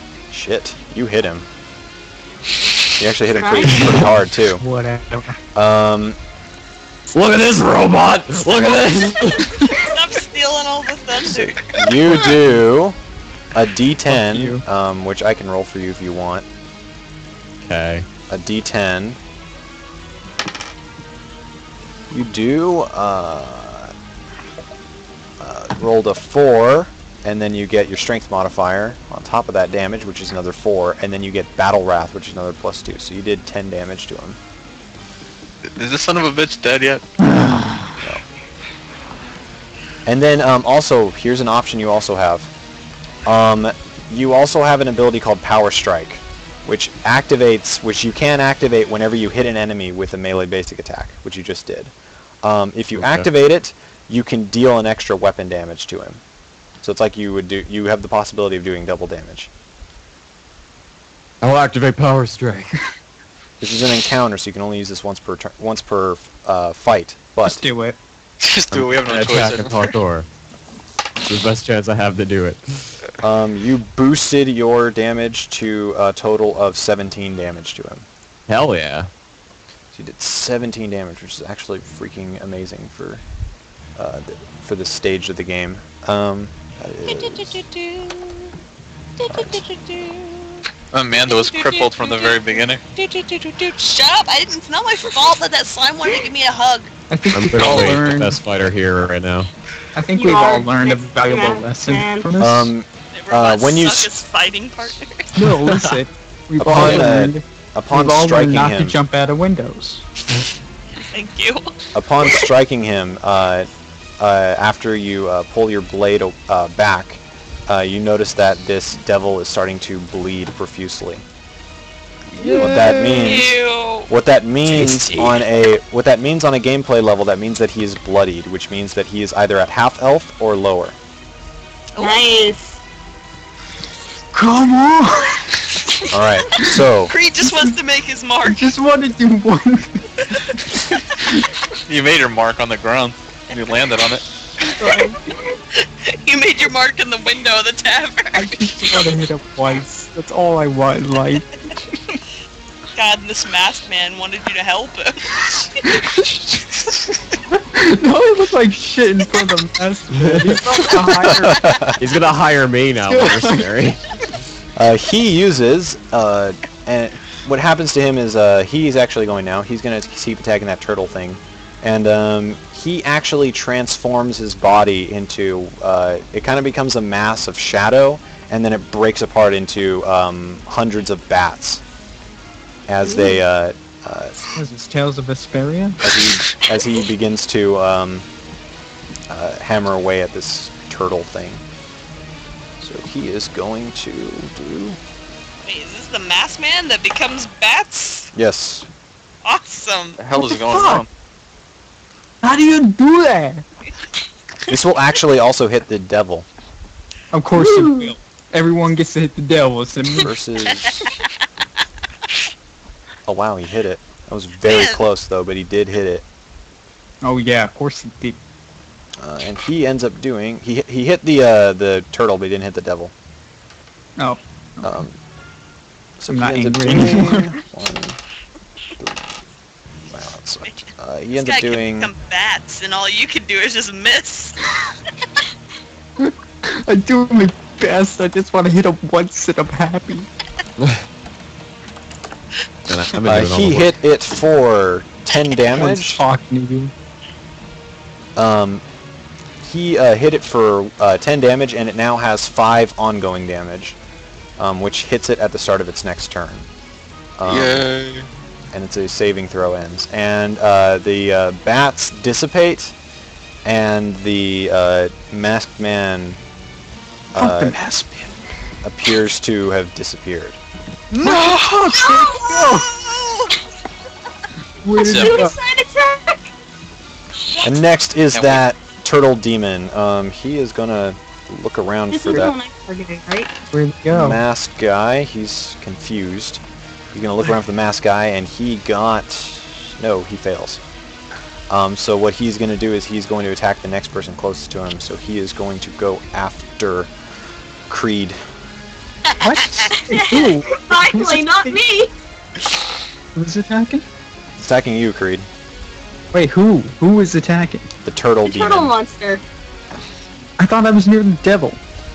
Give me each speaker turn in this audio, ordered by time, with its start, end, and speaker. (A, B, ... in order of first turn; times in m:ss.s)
0:00.3-0:01.4 A
0:03.0-0:04.6 A
0:03.3-0:03.7 B
0:04.0-0:05.4 C
0:05.5-0:06.2 A
0:07.1-0:09.5 D
0:09.8-0:11.6 E
0:11.8-0:13.0 A
0:13.6-0:16.5 A
0:14.1-0:14.6 C
0:17.6-0:18.0 D
0:18.3-0:19.2 A
0:22.1-0:23.9 A
0:25.4-0:34.4 A
0:35.7-0:37.0 F
0:37.2-0:37.9 C
0:40.0-0:42.5 A
0:43.2-0:56.2 A
0:53.0-0:53.3 D
0:56.8-0:59.5 A
1:01.4-1:02.8 D
1:03.6-1:07.6 A
1:07.4-1:08.0 C
1:08.4-1:10.0 F
1:08.7-1:10.3 D
1:11.2-1:12.9 D
1:13.2-1:18.1 A
1:18.5-1:19.1 D
1:19.9-1:23.2 A
1:24.0-1:27.6 A
1:27.0-1:28.5 E
1:29.2-1:36.9 E
1:29.3-1:29.6 A
1:30.9-1:32.8 F
1:37.1-1:38.4 C
1:37.3-1:39.5 D
1:39.9-1:42.7 C
1:40.2-1:42.3 B
1:42.4-1:44.2 A
1:43.1-1:45.4 E
1:45.4-1:50.0 C
1:46.6-1:49.0 A
1:46.8-1:47.0 D
1:50.9-1:51.7 E
1:52.0-2:01.2 A
2:02.4-2:03.4 D
2:02.4-2:11.0 A
2:03.2-2:04.1 E
2:04.7-2:05.4 D
2:12.0-2:12.4 E
2:12.0-2:12.8 B
2:14.3-2:15.4 C
2:16.1-2:17.1 A
2:17.1-2:18.7 E
2:17.4-2:17.7 C
2:18.4-2:20.1 C
2:20.8-2:21.4 C
2:21.9-2:24.2 F
2:23.5-2:24.0 E
2:24.8-2:25.2 C
2:25.8-2:29.0 E
2:28.3-2:31.6 C
2:32.9-2:35.2 E
2:35.8-2:36.4 C
2:37.5-2:41.7 C
2:41.1-2:41.9 A
2:42.0-2:44.0 D
2:43.1-2:43.7 C
2:44.8-3:01.8 A
3:02.9-3:04.4 A
3:03.0-3:03.4 B
3:04.5-3:06.0 C
3:06.0-3:08.3 A
3:09.3-3:11.6 A
3:12.8-3:15.0 A
3:15.7-3:18.3 E
3:18.3-3:18.9 A
3:19.4-3:20.2 E
3:20.2-3:21.1 F
3:20.4-3:21.0 C
3:22.4-3:23.6 C
3:24.7-3:26.5 A
3:27.3-3:30.3 C
3:27.5-3:28.1 B
3:30.2-3:31.1 A
3:30.7-3:31.1 E
3:33.2-3:36.2 A
3:34.6-3:35.0 E
3:37.2-3:38.4 C
3:39.2-3:43.1 A
3:44.2-3:44.9 C
3:44.8-3:45.2 A
3:46.2-3:48.2 A
3:46.3-3:47.5 C
3:50.1-3:52.1 A
3:50.7-3:54.6 E
3:56.2-4:00.3 C
4:02.8-4:03.9 D
4:03.2-4:06.2 A
4:05.7-4:06.9 C
4:08.4-4:08.8 A
4:09.6-4:14.0 A
4:14.6-4:16.7 A
4:17.4-4:17.9 A
4:17.5-4:18.3 F
4:18.7-4:22.9 A
4:23.6-4:26.4 A
4:27.3-4:27.8 A
4:27.4-4:28.3 C
4:28.8-4:30.6 A
4:31.1-4:32.8 C
4:32.0-4:32.5 B
4:32.5-4:33.0 E
4:34.8-4:35.6 C
4:35.0-4:36.5 B
4:35.0-4:35.4 F
4:37.6-4:42.5 A
4:38.3-4:38.6 F
4:42.1-4:43.5 B
4:43.7-4:44.4 C
4:44.1-4:50.8 A
4:51.7-4:57.1 A
4:57.9-4:58.4 A
4:59.4-5:01.8 C
5:00.1-5:02.1 B
5:03.4-5:04.0 C
5:04.6-5:05.5 A
5:06.3-5:07.9 C
5:08.0-5:08.9 A
5:08.4-5:09.4 B
5:10.6-5:11.8 C